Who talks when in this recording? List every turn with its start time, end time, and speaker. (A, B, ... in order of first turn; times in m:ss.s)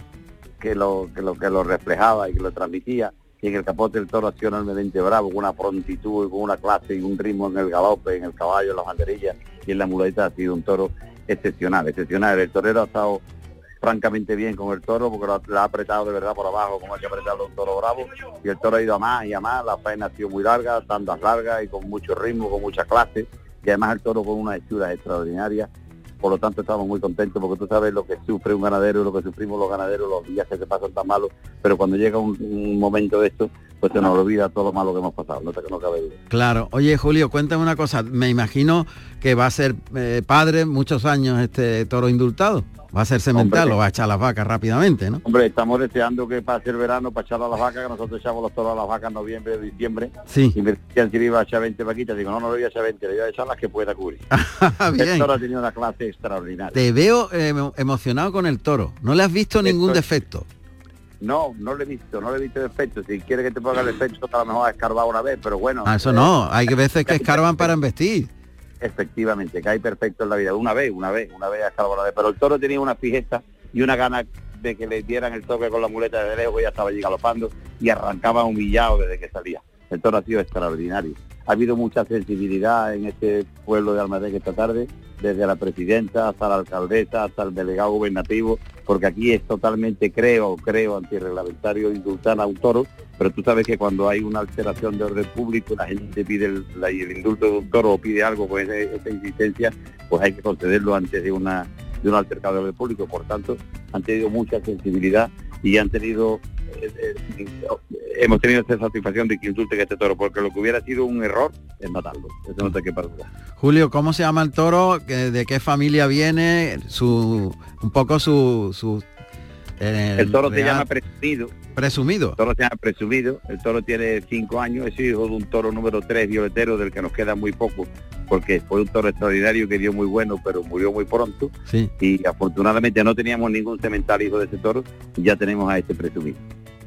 0:00.6-0:13.2 A
0:13.8-0:25.7 A
0:26.2-0:36.2 A
0:36.3-0:45.2 B
0:43.3-0:43.8 A
0:45.2-0:54.2 A
0:50.3-0:50.6 B
0:54.3-0:55.3 B
0:55.0-0:56.8 A
0:56.7-1:00.4 B
0:59.6-1:00.0 A
1:01.2-1:06.3 A
1:05.8-1:08.3 B
1:07.1-1:07.7 A
1:08.8-1:53.3 A
1:53.6-1:59.0 B
1:59.8-2:00.9 B
2:00.2-2:01.5 A
2:01.7-2:02.4 B
2:02.4-2:16.4 A